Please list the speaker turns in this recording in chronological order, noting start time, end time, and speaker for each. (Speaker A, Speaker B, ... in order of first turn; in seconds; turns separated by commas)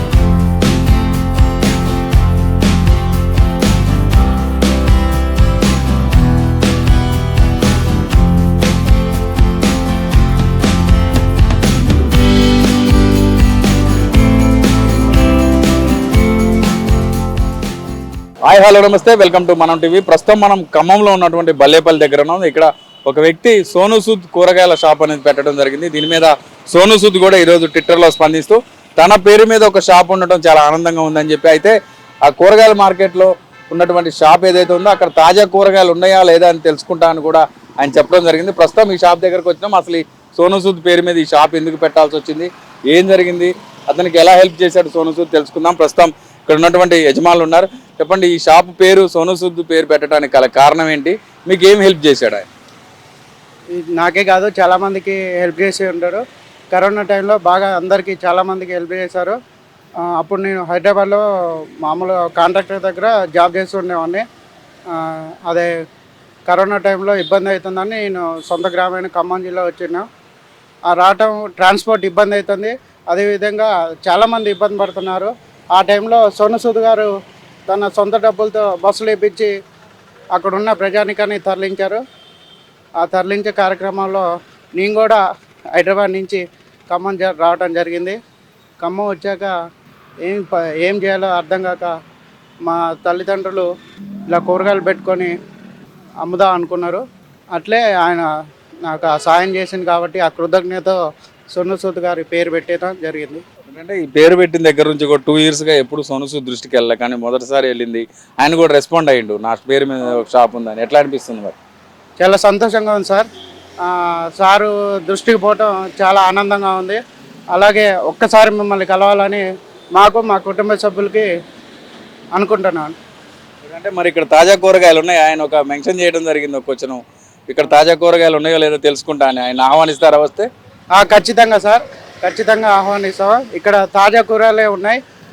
Speaker A: 18.5-52.5, Speaker B: 53.8-59.4, Speaker B: 60.1-61.2, Speaker B: 61.8-64.2, Speaker B: 64.9-65.7, Speaker B: 66.5-70.1, Speaker B: 70.9-77.1, Speaker B: 77.7-79.5, Speaker B: 80.4-82.0, Speaker B: 83.0-84.3, Speaker B: 84.8-85.2, Speaker B: 85.7-88.2, Speaker B: 88.8-89.5, Speaker B: 90.2-91.9, Speaker B: 92.7-93.7, Speaker B: 94.3-95.3, Speaker B: 96.2-97.0, Speaker B: 97.5-98.3, Speaker B: 98.8-101.0, Speaker B: 101.5-103.4, Speaker A: 103.7-111.5, Speaker B: 112.2-113.3, Speaker B: 113.8-117.0, Speaker B: 117.5-119.4, Speaker B: 120.0-121.3, Speaker B: 122.3-122.9, Speaker A: 123.6-130.5, Speaker B: 130.9-135.0